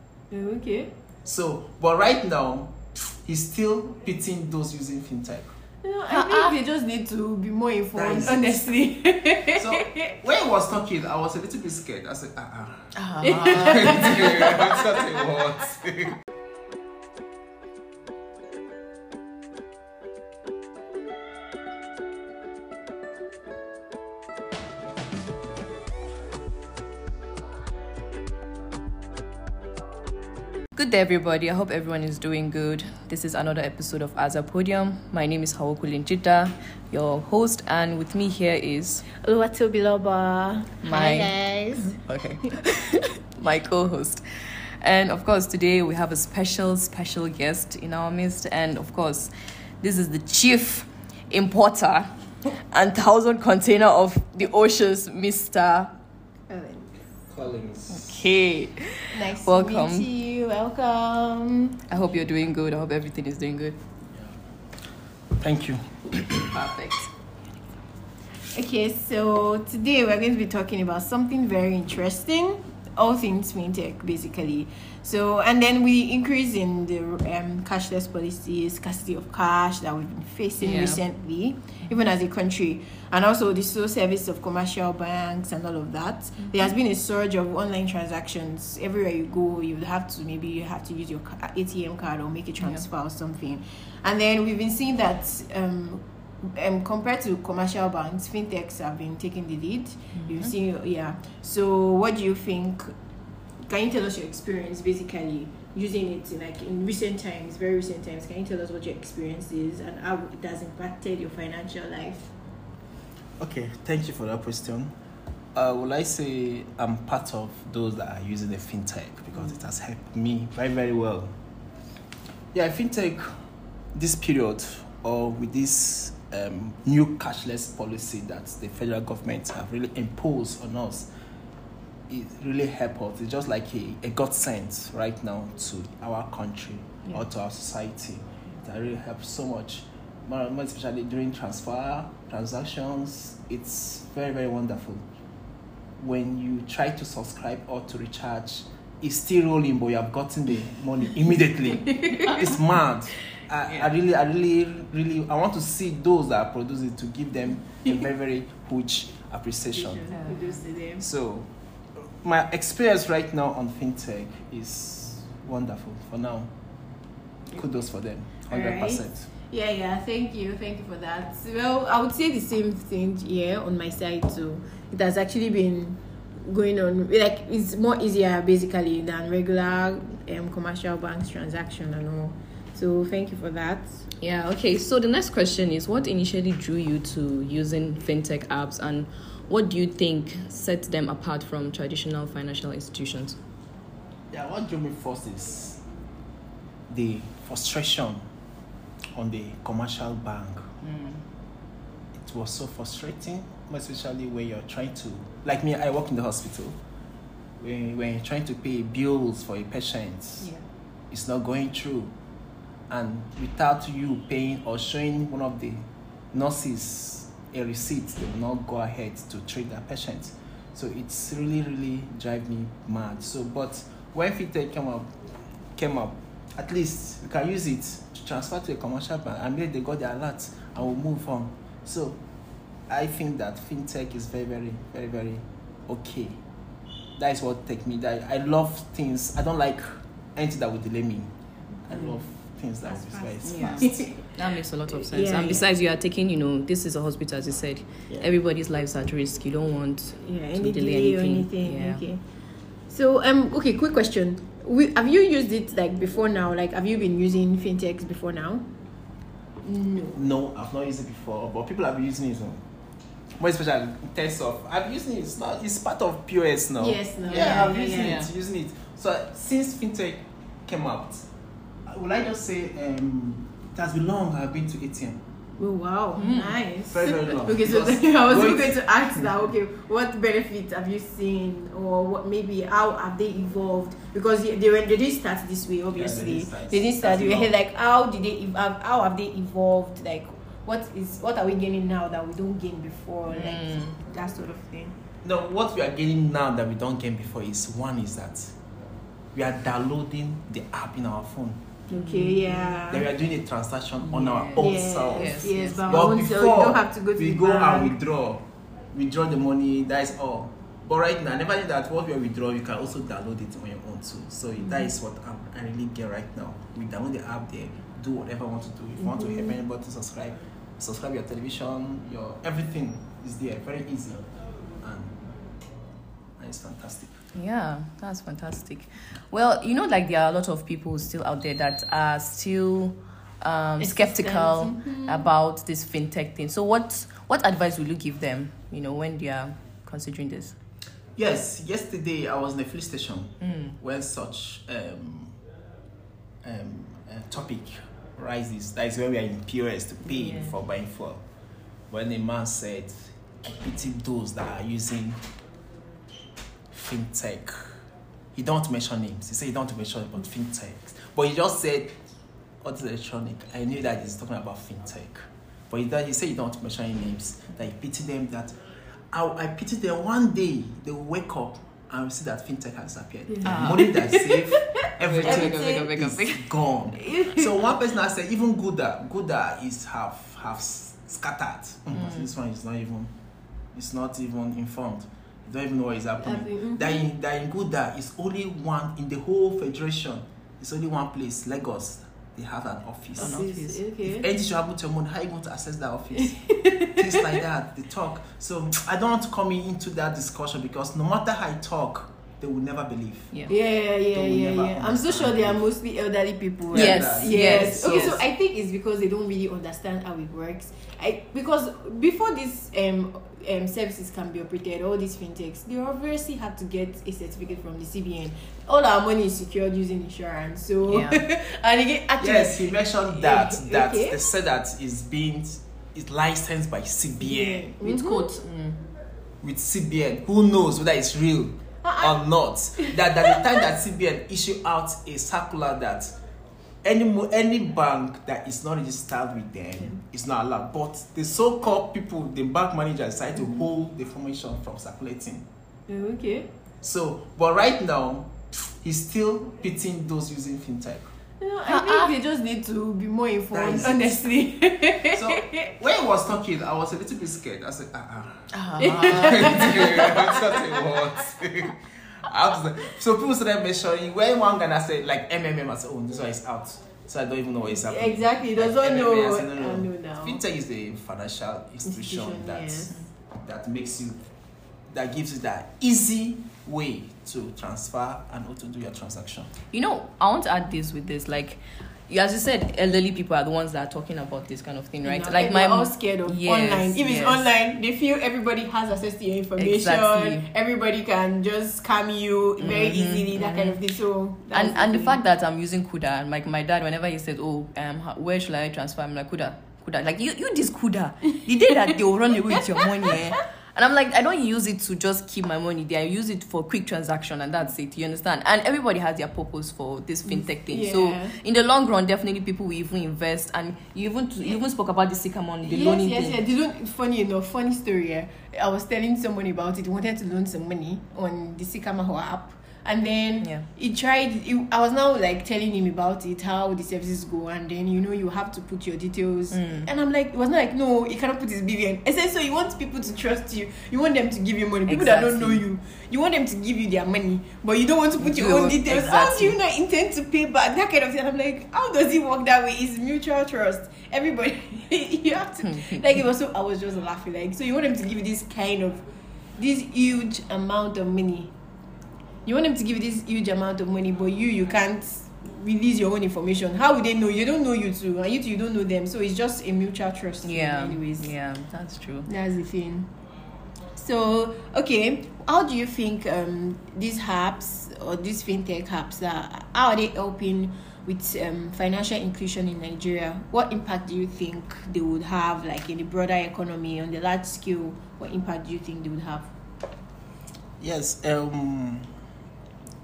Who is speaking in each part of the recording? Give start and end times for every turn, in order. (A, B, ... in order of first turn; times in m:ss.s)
0:00.3-0:00.9 A
0:01.2-0:05.5 B
0:05.8-0:10.1 A
0:06.1-0:06.6 C
0:07.9-0:08.8 B
0:09.4-0:16.2 B
0:13.0-0:14.4 C
0:13.5-0:15.0 A
0:30.7-0:39.1 C
0:39.2-0:42.0 A
0:40.8-0:55.9 C
0:56.5-0:57.0 A
0:57.3-0:58.3 B
0:57.9-1:00.1 C
0:59.1-1:01.8 A
1:01.9-1:03.8 C
1:05.4-1:06.4 B
1:06.4-1:07.1 C
1:08.5-1:42.9 A
1:20.6-1:21.0 C
1:40.1-1:40.5 C
1:43.7-1:52.3 A
1:53.4-1:54.9 B
1:55.6-2:01.3 B
2:02.5-2:03.3 B
2:03.9-2:11.1 B
2:12.1-2:25.0 B
2:26.0-2:40.1 B
2:39.7-2:41.0 A
2:40.1-2:40.6 C
2:41.0-2:41.5 B
2:42.1-2:46.5 B
2:47.5-2:49.3 B
2:48.5-3:04.0 A
3:04.2-3:13.4 C
3:14.3-3:15.8 B
3:16.9-3:18.2 B
3:19.2-3:20.7 B
3:20.8-3:21.2 C
3:22.1-3:26.8 B
3:27.6-3:30.5 B
3:31.1-3:32.1 B
3:32.9-3:45.1 B
3:45.8-3:52.2 B
3:52.9-3:56.4 B
3:57.2-4:01.3 B
4:01.8-4:04.1 B
4:02.9-4:04.3 A
4:03.4-4:12.0 C
4:04.9-4:05.7 A
4:10.2-4:12.2 A
4:12.9-4:18.7 A
4:19.6-4:20.2 A
4:20.2-4:22.6 B
4:23.4-4:31.3 B
4:26.8-4:28.3 A
4:27.3-4:28.3 C
4:31.9-4:35.2 B
4:35.6-4:55.0 A
4:36.2-4:36.6 C
4:36.9-4:39.3 B
4:45.9-4:47.5 B
4:53.3-4:54.0 C
4:55.2-4:58.6 B
4:59.3-5:01.6 B
5:01.9-5:02.8 C
5:01.9-5:03.1 A
5:02.9-5:24.3 B
5:04.0-5:06.0 C
5:04.6-5:08.0 A
5:14.6-5:14.9 A
5:19.1-5:19.6 A
5:24.8-5:25.2 B
5:26.4-5:27.2 B
5:27.3-5:40.6 C
5:33.8-5:35.3 A
5:41.2-5:45.4 B
5:43.4-5:43.8 C
5:46.4-5:51.2 B
5:50.2-5:50.5 C
5:51.9-5:55.2 B
5:56.7-5:57.8 B
5:58.4-6:02.0 B
6:02.6-6:08.6 B
6:09.1-6:23.1 B
6:13.4-6:15.9 A
6:13.4-6:13.9 C
6:15.0-6:16.6 C
6:17.1-6:17.6 A
6:22.0-6:22.2 C
6:23.8-6:33.5 B
6:26.2-6:27.1 A
6:33.2-6:33.8 C
6:33.2-6:34.3 A
6:34.0-6:43.5 B
6:43.5-7:04.2 A
6:44.1-6:45.6 B
6:46.7-6:48.2 B
6:46.7-6:48.2 C
7:00.9-7:01.2 C
7:02.2-7:07.7 B
7:07.2-7:08.4 A
7:07.8-7:08.8 C
7:09.4-7:16.2 B
7:11.8-7:12.2 A
7:12.8-7:13.4 A
7:16.8-7:25.5 B
7:25.9-7:26.5 A
7:26.8-7:31.1 B
7:31.4-7:35.6 A
7:31.7-7:32.1 C
7:33.5-7:34.3 B
7:35.0-7:54.3 B
7:38.6-7:39.8 C
7:47.7-7:50.4 A
7:51.8-7:53.0 A
7:54.9-7:59.5 B
7:59.7-8:07.5 C
8:05.0-8:15.2 A
8:09.6-8:10.5 C
8:12.6-8:13.8 C
8:14.5-8:36.4 C
8:22.6-8:23.4 A
8:30.3-8:31.4 A
8:35.6-9:09.0 A
8:43.4-8:43.7 C
8:49.5-8:49.9 C
8:54.9-8:55.6 C
8:58.2-8:59.6 C
9:05.6-9:06.0 C
9:09.6-9:11.5 A
9:12.5-9:21.3 A
9:20.4-9:22.3 C
9:22.3-9:23.1 A
9:23.9-9:39.5 A
9:40.8-9:42.1 B